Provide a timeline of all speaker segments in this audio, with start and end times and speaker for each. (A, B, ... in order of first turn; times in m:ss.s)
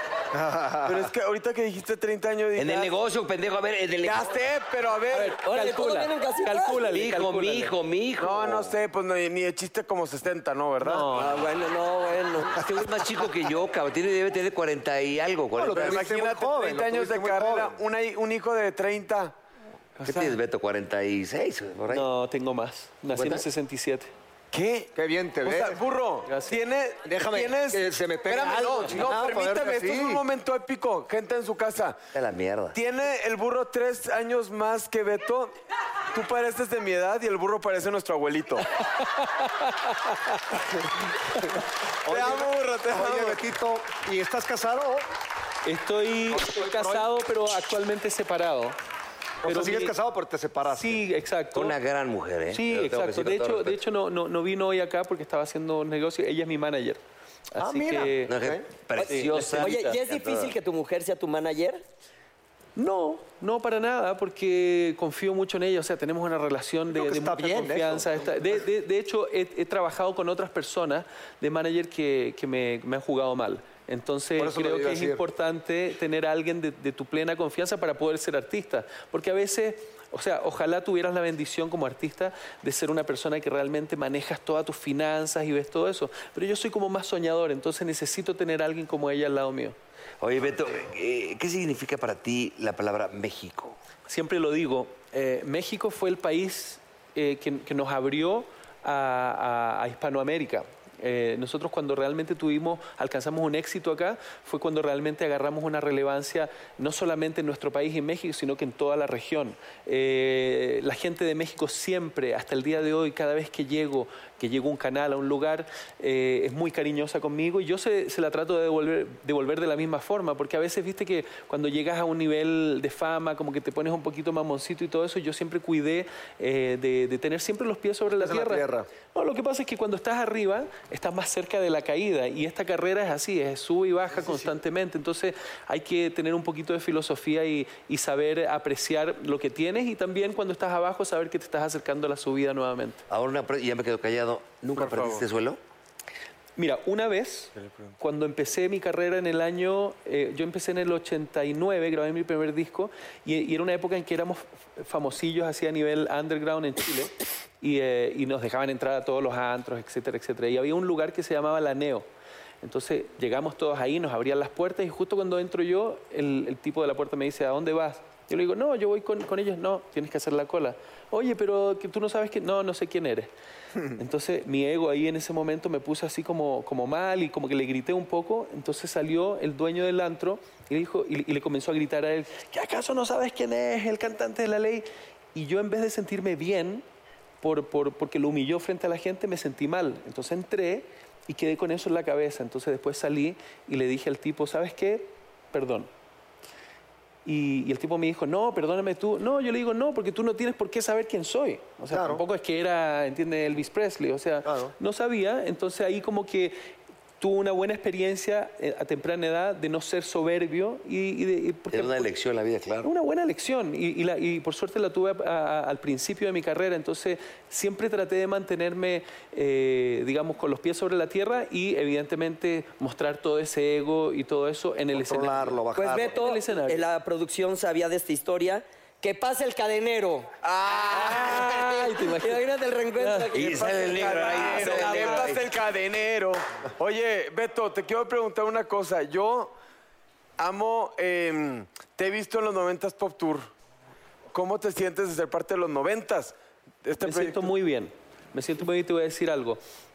0:00.3-0:01.1 A
0:00.8-0:02.9 B
0:02.6-0:04.4 C
0:04.0-0:05.4 B
0:05.1-0:07.7 D
0:05.4-0:06.9 E
0:06.9-0:08.8 C
0:08.2-0:11.1 B
0:10.8-0:11.1 D
0:11.1-0:12.6 E
0:12.6-0:16.1 C
0:15.6-0:17.8 A
0:15.8-0:19.4 B
0:20.0-0:22.1 C
0:20.1-0:20.4 B
0:21.9-0:24.1 D
0:23.1-0:23.4 C
0:24.5-0:24.9 B
0:25.0-0:25.8 A
0:25.4-0:32.0 B
0:26.3-0:26.6 D
0:27.0-0:30.2 A
0:32.1-0:32.8 C
0:32.7-0:35.5 B
0:36.1-0:38.7 B
0:39.0-0:40.4 D
0:42.1-0:45.1 A
0:42.1-0:43.4 B
0:45.6-0:48.8 D
0:46.3-0:47.1 A
0:49.4-0:51.0 A
0:49.4-0:49.9 D
0:50.7-0:51.8 D
0:51.5-0:53.8 C
0:52.5-0:57.0 D
0:57.5-0:58.3 D
0:57.6-0:58.6 A
0:58.3-1:00.5 C
0:59.0-1:01.8 E
0:59.0-0:59.9 D
1:02.8-1:29.8 D
1:06.9-1:08.6 A
1:14.4-1:15.2 A
1:30.2-1:33.8 C
1:34.1-2:23.0 D
2:08.1-2:08.9 A
2:14.2-2:14.5 A
2:23.1-2:25.6 C
2:24.8-2:25.2 B
2:26.6-2:42.1 D
2:27.6-2:27.9 B
2:42.6-2:53.3 D
2:54.0-3:06.8 D
3:07.4-3:15.9 D
3:17.3-3:26.6 D
3:21.9-3:22.2 A
3:24.4-3:24.7 A
3:27.2-3:32.1 D
3:31.7-3:32.9 C
3:32.8-3:46.9 D
3:44.9-3:46.2 A
3:45.8-3:50.3 E
3:50.4-3:51.4 B
3:50.9-3:52.4 D
3:51.0-3:54.4 E
3:53.0-3:53.4 D
3:53.3-3:55.5 C
3:53.5-3:59.5 B
3:54.0-3:55.4 D
4:00.4-4:03.5 B
4:04.3-4:07.5 B
4:07.0-4:09.6 D